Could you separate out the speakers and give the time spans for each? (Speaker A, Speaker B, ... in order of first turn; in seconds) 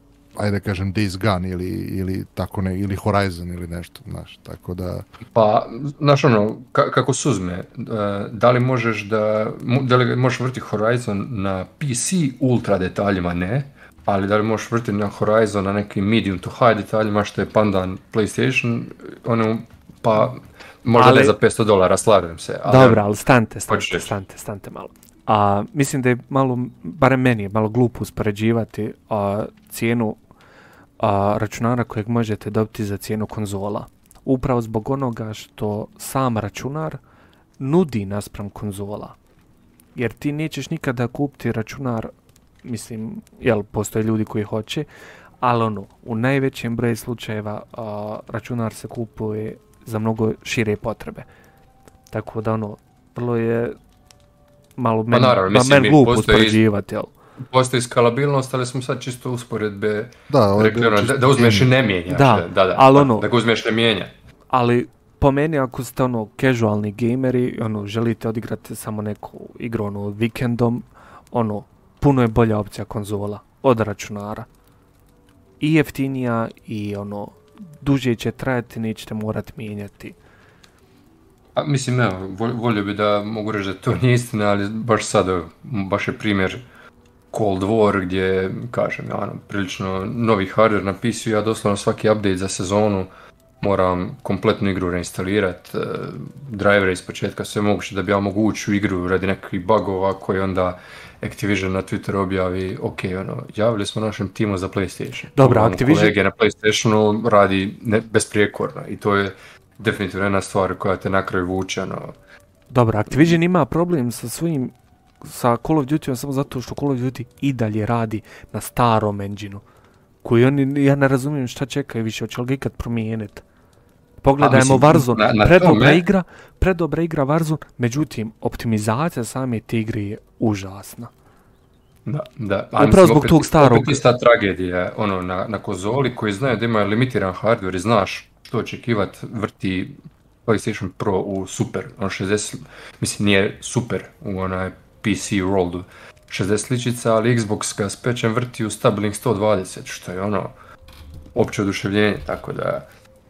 Speaker A: 0.3-5.0, 60.3-61.7
Speaker B: 5.3-23.1, 23.7-24.1, 55.1-56.6, 57.5-64.1, 81.5-86.6, 87.3-93.1, 93.6-112.1, 113.1-113.4, 124.4-126.0, 132.1-150.5, 151.3-152.9
Speaker C: 20.9-21.3, 22.6-30.2, 31.0-37.0, 37.6-39.1, 40.0-42.1, 42.6-44.9, 45.4-51.3, 52.1-53.8, 54.8-57.1, 62.1-63.3, 64.5-74.5, 75.6-80.2, 105.3-106.2, 112.7-119.6, 120.2-123.4, 124.2-131.1, 132.8-134.0